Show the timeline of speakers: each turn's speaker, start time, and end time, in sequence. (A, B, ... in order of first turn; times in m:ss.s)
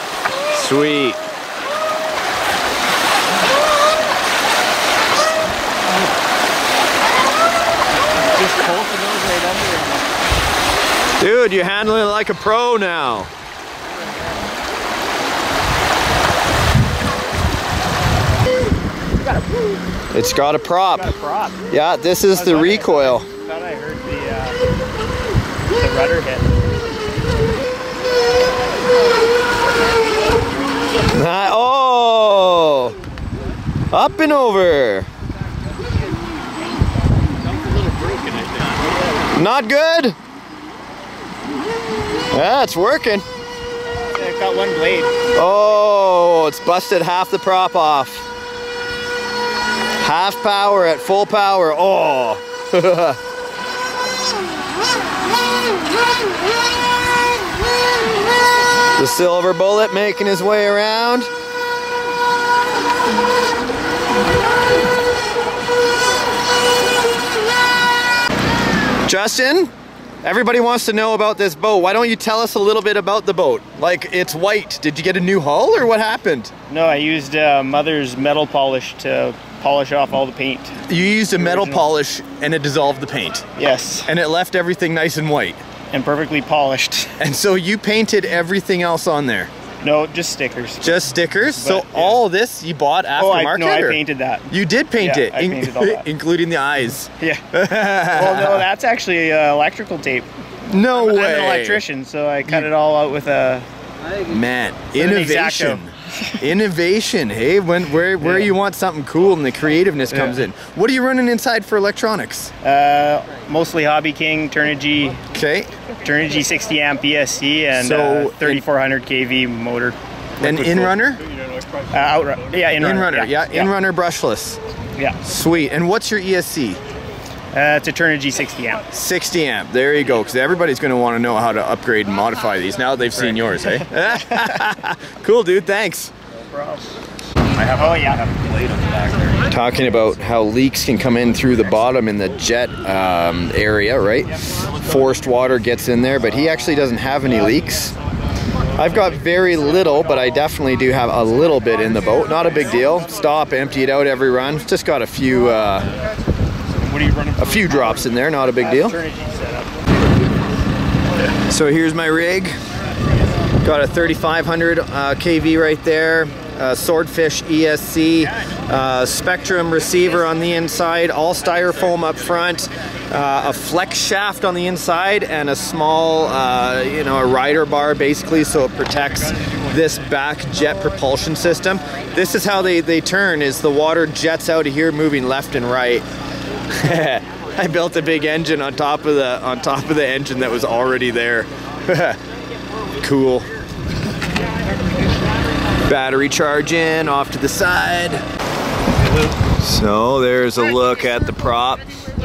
0:00.5-0:01.2 A
0:08.3-0:10.2 B
0:11.2-0:13.3 A
0:20.1-0:21.1 A
0:20.9-0:21.6 B
0:21.7-0:23.3 A
0:22.4-0:24.6 B
0:25.8-0:26.5 B
0:31.1-0:33.0 A
0:33.9-0:35.1 A
0:37.7-0:38.6 B
0:39.3-0:40.2 A
0:42.3-0:43.2 A
0:44.1-0:45.1 B
0:45.4-0:48.3 A
0:50.0-0:53.2 A
0:59.0-1:01.3 A
1:09.1-1:09.7 A
1:10.2-1:16.5 A
1:16.7-1:20.8 B
1:20.9-1:23.5 A
1:21.4-1:21.9 B
1:23.6-1:24.1 B
1:24.1-1:25.6 A
1:25.9-1:27.2 B
1:27.2-1:29.5 A
1:29.8-1:30.9 B
1:30.8-1:38.7 A
1:31.6-1:32.2 B
1:33.2-1:36.1 B
1:38.0-1:40.3 B
1:40.7-1:41.8 A
1:40.9-1:43.7 B
1:44.2-1:52.5 A
1:44.9-1:45.8 B
1:48.2-1:48.5 B
1:50.1-1:50.4 B
1:52.6-1:55.2 B
1:55.3-1:55.7 A
1:56.0-2:01.0 B
1:57.7-1:58.6 A
2:00.4-2:01.2 A
2:01.9-2:03.7 B
2:02.8-2:04.6 A
2:05.2-2:06.8 A
2:07.5-2:08.9 B
2:08.9-2:16.1 A
2:13.2-2:13.9 B
2:16.5-2:16.9 B
2:17.6-2:19.5 B
2:19.5-2:28.0 A
2:28.8-2:35.9 A
2:36.8-2:39.8 B
2:37.4-2:39.0 A
2:41.4-2:42.6 A
2:43.6-3:06.0 A
3:06.7-3:12.2 A
3:13.0-3:13.5 A
3:15.9-3:18.2 A
3:19.6-3:21.8 A